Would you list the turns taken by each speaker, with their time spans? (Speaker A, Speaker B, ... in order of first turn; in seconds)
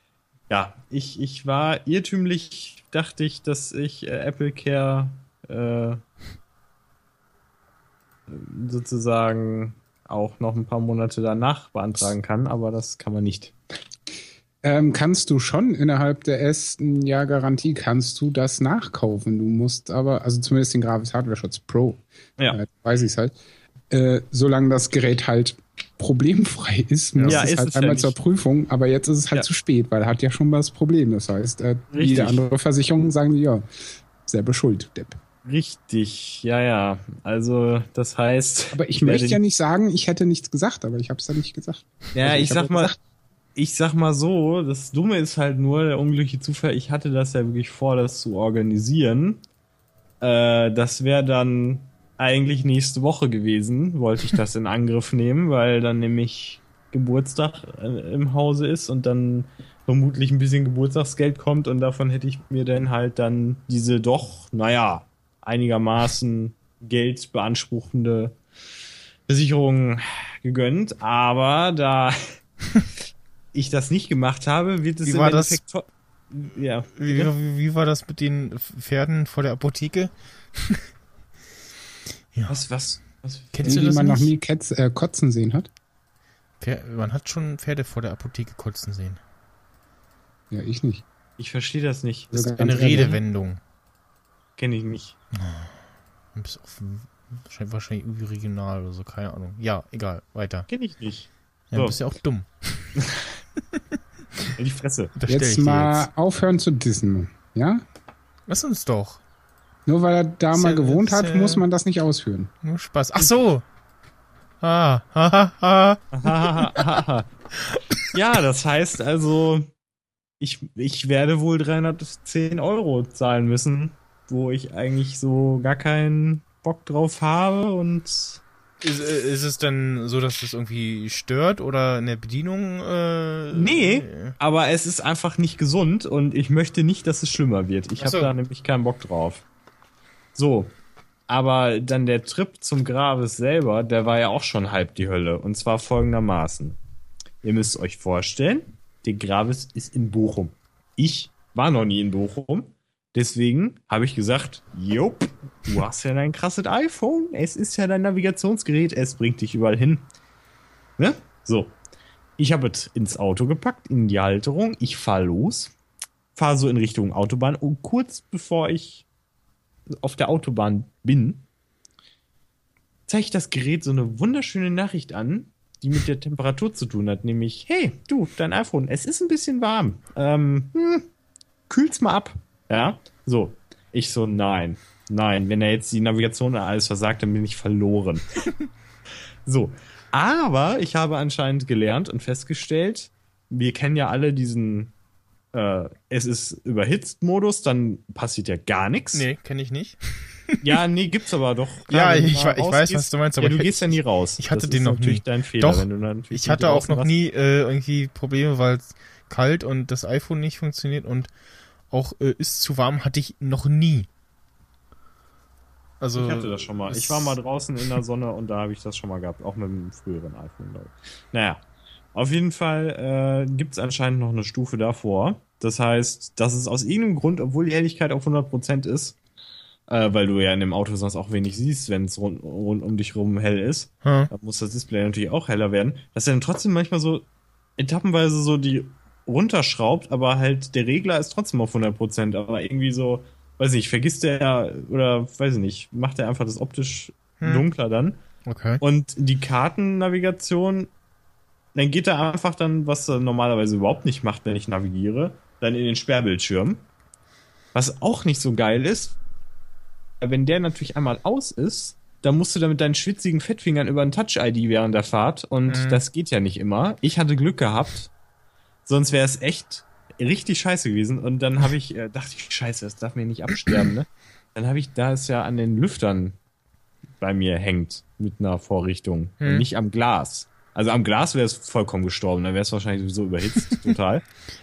Speaker A: 0.5-6.0, 8.3-13.6, 27.2-28.1, 31.9-32.4, 35.4-39.4, 42.1-42.9, 43.5-49.4, 50.2-68.3, 69.3-72.3, 73.5-77.3, 82.5-83.8, 91.4-92.3, 94.6-95.2, 100.7-102.0, 103.0-103.3, 104.5-105.1, 116.1-117.3, 118.1-119.7, 120.4-128.4, 133.5-139.4, 140.3-140.7, 141.3-146.8, 147.4-160.1, 161.0-161.7, 162.4-165.7, 166.3-169.0, 169.9-171.4, 173.1-181.1, 181.7-188.4, 189.4-194.9, 195.5-199.3, 200.6-207.1, 216.1-221.6, 222.1-229.2, 229.9-237.2, 237.8-248.2, 248.8-250.9, 251.7-256.8, 257.7-259.2, 260.2-268.1, 268.8-276.4, 277.2-284.2
Speaker B: 14.6-23.4, 23.9-33.6, 34.2-35.2, 38.7-43.0, 83.6-85.7, 90.5-91.0, 92.3-93.2, 105.3-107.8, 109.8-112.5
Speaker C: 27.1-27.4, 75.0-75.6, 77.0-80.8, 83.5-84.3, 86.6-89.2, 92.4-93.6, 95.3-95.8, 96.3-100.7, 101.7-102.9, 105.2-106.1, 108.5-109.2, 110.5-111.6, 112.6-113.6, 114.6-116.7, 128.8-134.3, 138.0-138.3, 199.1-200.6, 201.9-211.3, 211.9-214.1, 216.0-217.4, 234.0-234.3, 247.4-247.7, 248.4-248.8, 265.7-266.0, 279.4-279.6